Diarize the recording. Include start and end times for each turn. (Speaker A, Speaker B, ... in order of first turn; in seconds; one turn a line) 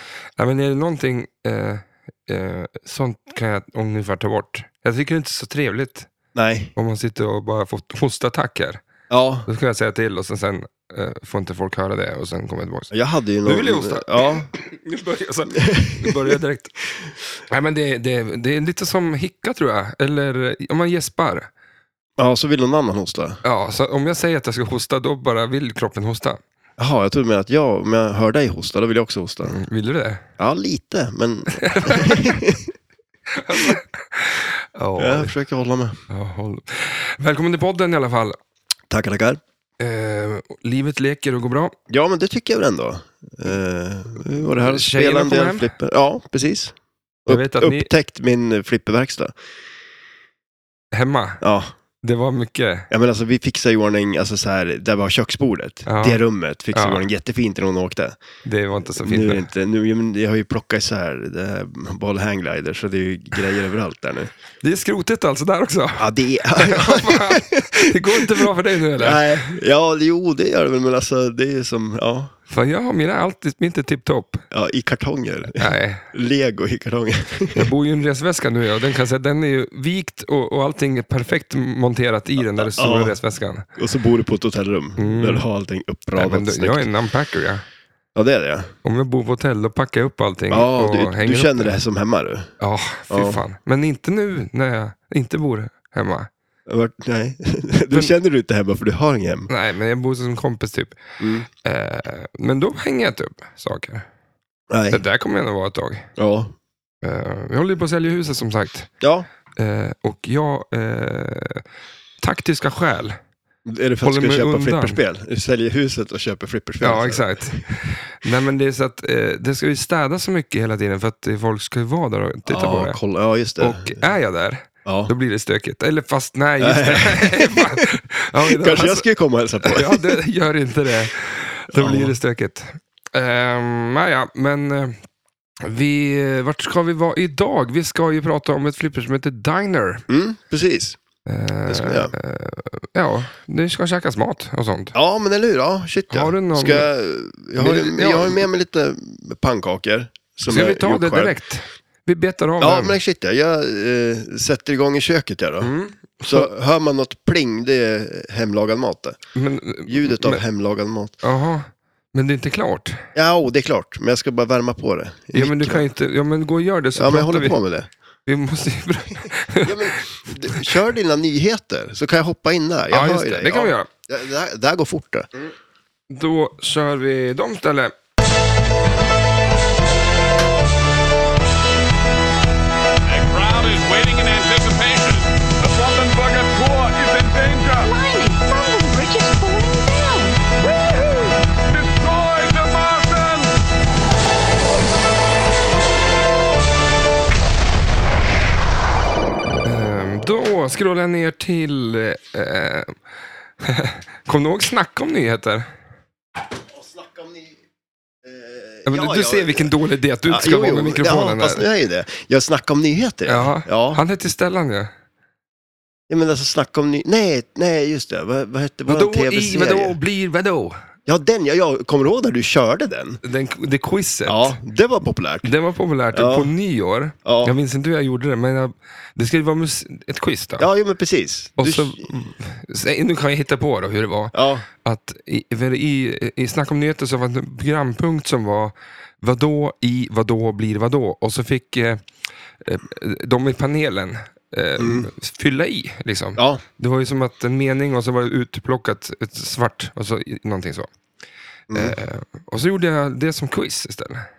Speaker A: 0.4-6.1
Speaker B: 6.3-6.7
Speaker A: 6.8-8.8
Speaker B: 9.1-9.5
Speaker A: 9.5-12.9
Speaker B: 12.9-14.5
Speaker A: 13.4-16.8
Speaker B: 15.6-16.4
Speaker A: 17.5-21.5
Speaker B: 22.2-23.4
Speaker A: 23.4-26.4
Speaker B: 26.8-29.6
Speaker A: 29.5-30.2
Speaker B: 30.4-32.7
Speaker A: 31.5-32.4
Speaker A: 33.4-35.3
Speaker B: 33.5-33.8
Speaker B: 35.0-36.0
Speaker A: 36.1-38.4
Speaker B: 38.9-39.4
Speaker A: 39.8-41.8
Speaker B: 41.9-46.8
Speaker A: 44.5-45.7
Speaker B: 47.3-49.4
Speaker A: 47.3-47.9
Speaker A: 50.9-51.4
Speaker B: 51.4-51.7
Speaker A: 52.0-52.9
Speaker B: 52.9-58.2
Speaker A: 55.9-56.2
Speaker A: 56.7-57.1
Speaker A: 58.5-59.5
Speaker B: 59.0-64.3
Speaker A: 64.6-69.3
Speaker B: 66.0-72.3
Speaker A: 72.5-74.5
Speaker B: 74.5-77.7
Speaker A: 75.6-76.1
Speaker A: 77.5-83.7
Speaker B: 82.4-83.2
Speaker B: 83.8-86.9
Speaker A: 85.0-85.5
Speaker A: 86.2-87.6
Speaker B: 88.2-88.7
Speaker A: 88.8-91.8
Speaker B: 90.5-92.5
Speaker A: 92.6-96.3
Speaker B: 93.1-93.4
Speaker B: 96.7-99.5
Speaker A: 99.5-101.0
Speaker B: 101.2-101.5
Speaker A: 101.6-104.1
Speaker B: 104.7-105.0
Speaker A: 104.9-106.1
Speaker B: 106.2-106.5
Speaker A: 107.0-108.9
Speaker B: 109.0-109.3
Speaker A: 109.6-111.6
Speaker A: 112.2-113.2
Speaker B: 113.7-117.7
Speaker A: 114.0-115.0
Speaker A: 116.8-123.0
Speaker B: 122.5-124.0
Speaker A: 123.6-129.1
Speaker B: 124.8-125.1
Speaker B: 126.6-130.0
Speaker A: 129.6-135.0
Speaker B: 131.8-132.2
Speaker A: 135.6-140.1
Speaker B: 140.1-141.0
Speaker A: 141.3-145.0
Speaker B: 141.7-142.1
Speaker B: 144.9-151.3
Speaker A: 146.1-146.9
Speaker A: 147.6-148.4
Speaker A: 150.5-153.0
Speaker B: 152.6-155.7
Speaker A: 155.6-156.5
Speaker B: 156.3-159.2
Speaker A: 159.3-160.4
Speaker B: 159.9-161.2
Speaker A: 161.2-163.0
Speaker B: 163.2-165.9
Speaker A: 165.3-167.6
Speaker B: 167.0-167.9
Speaker A: 168.3-170.6
Speaker B: 169.6-175.4
Speaker A: 172.9-173.9
Speaker A: 176.1-177.9
Speaker C: 183.1-187.8
Speaker D: 185.9-190.4
Speaker D: 191.8-193.4
Speaker C: 192.2-193.3
Speaker A: 199.6-203.0
Speaker A: 203.6-205.7
Speaker B: 206.7-207.6
Speaker B: 208.2-209.7
Speaker A: 208.9-211.7
Speaker B: 210.3-214.0
Speaker A: 213.3-214.9
Speaker B: 216.1-220.0
Speaker A: 218.9-220.8
Speaker B: 221.1-223.2
Speaker A: 223.2-224.6
Speaker B: 224.3-225.5
Speaker A: 225.4-230.7
Speaker B: 226.1-226.5
Speaker B: 227.2-227.5
Speaker B: 230.6-232.1
Speaker A: 231.6-242.0
Speaker B: 234.3-234.7
Speaker A: 242.6-250.9
Speaker B: 244.8-245.1
Speaker B: 246.4-246.6
Speaker B: 251.7-252.0
Speaker A: 251.7-254.3